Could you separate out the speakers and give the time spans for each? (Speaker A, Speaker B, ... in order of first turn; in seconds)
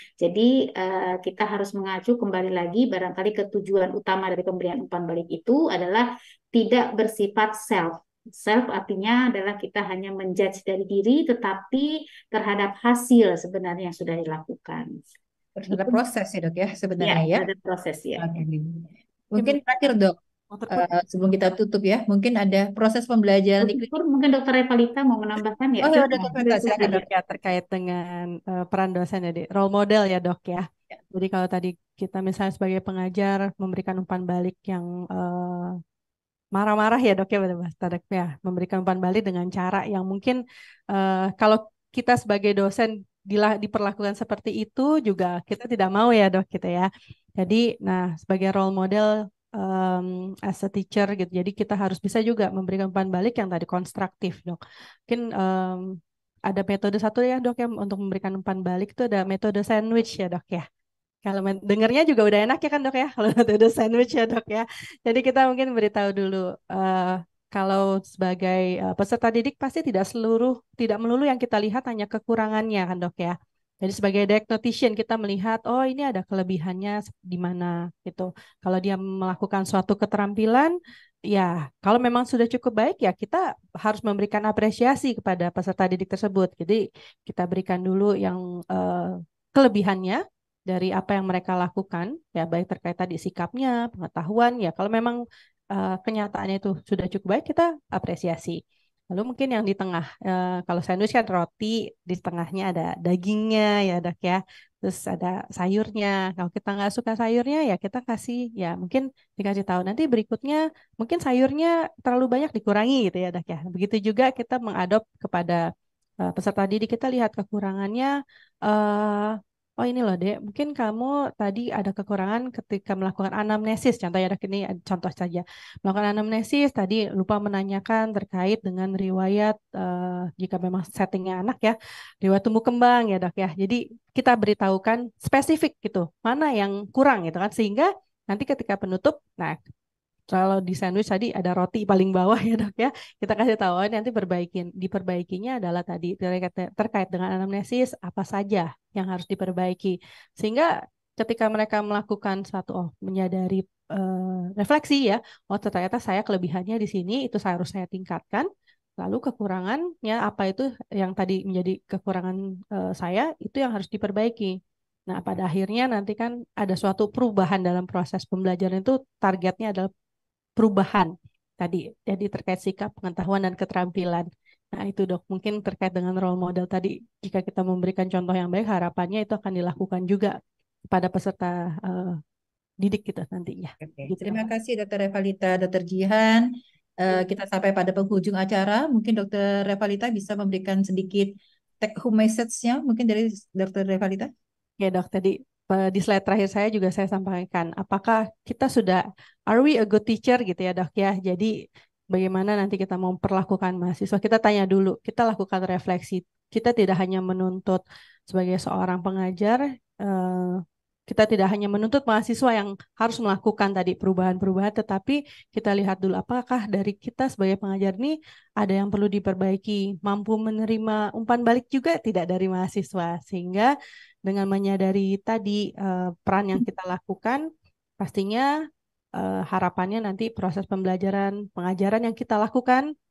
Speaker A: 0.2-14.9, 15.7-16.0, 17.0-18.3, 23.6-27.0
Speaker B: 15.6-17.5, 18.2-20.2, 20.7-23.9, 25.8-27.0, 183.8-186.5, 187.0-194.3
Speaker C: 20.5-20.9, 26.8-35.8, 36.5-40.4, 40.9-60.6, 61.2-80.7, 81.3-95.2, 95.7-98.6, 99.1-115.6, 116.2-118.1, 118.7-139.6, 140.3-158.5, 159.0-164.6, 165.1-169.9, 170.6-180.4, 180.9-182.2, 182.8-184.4, 194.8-201.5, 202.1-223.7, 224.3-227.4, 228.0-228.5, 229.2-232.8